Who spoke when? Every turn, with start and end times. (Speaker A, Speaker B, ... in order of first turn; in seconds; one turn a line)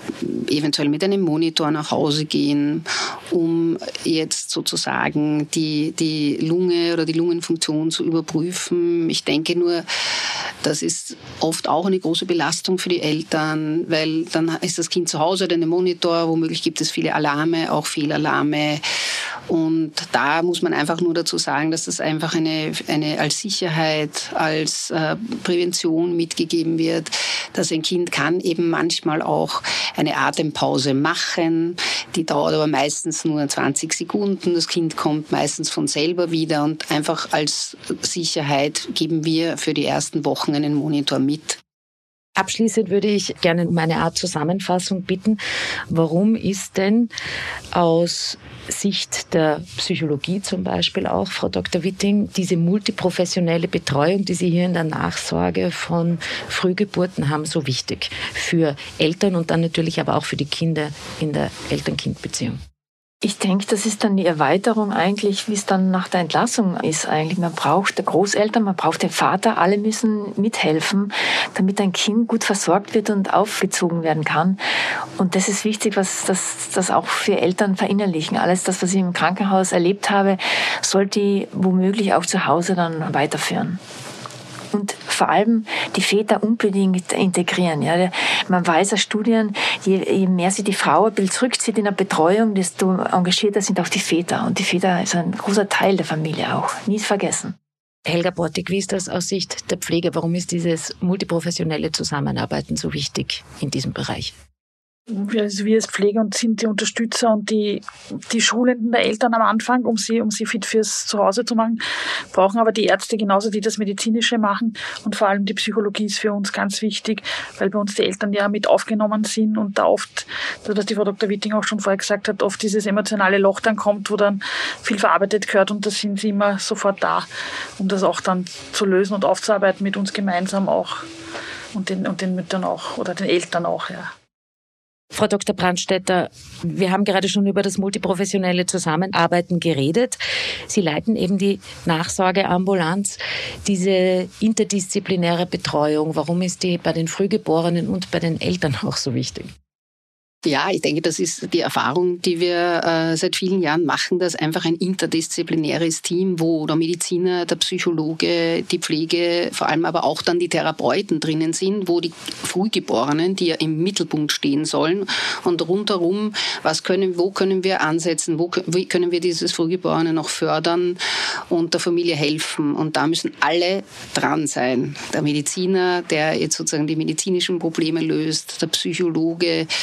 Speaker A: 0.2-18.8
Speaker A: 19.5-41.6
Speaker B: 42.4-47.1
Speaker B: 47.7-62.6
Speaker C: 63.2-74.6
Speaker C: 75.2-83.8
Speaker C: 84.7-97.5
Speaker B: 98.0-104.3
Speaker D: 105.1-131.1
Speaker D: 131.7-134.1
Speaker B: 135.1-149.5
Speaker A: 150.4-179.7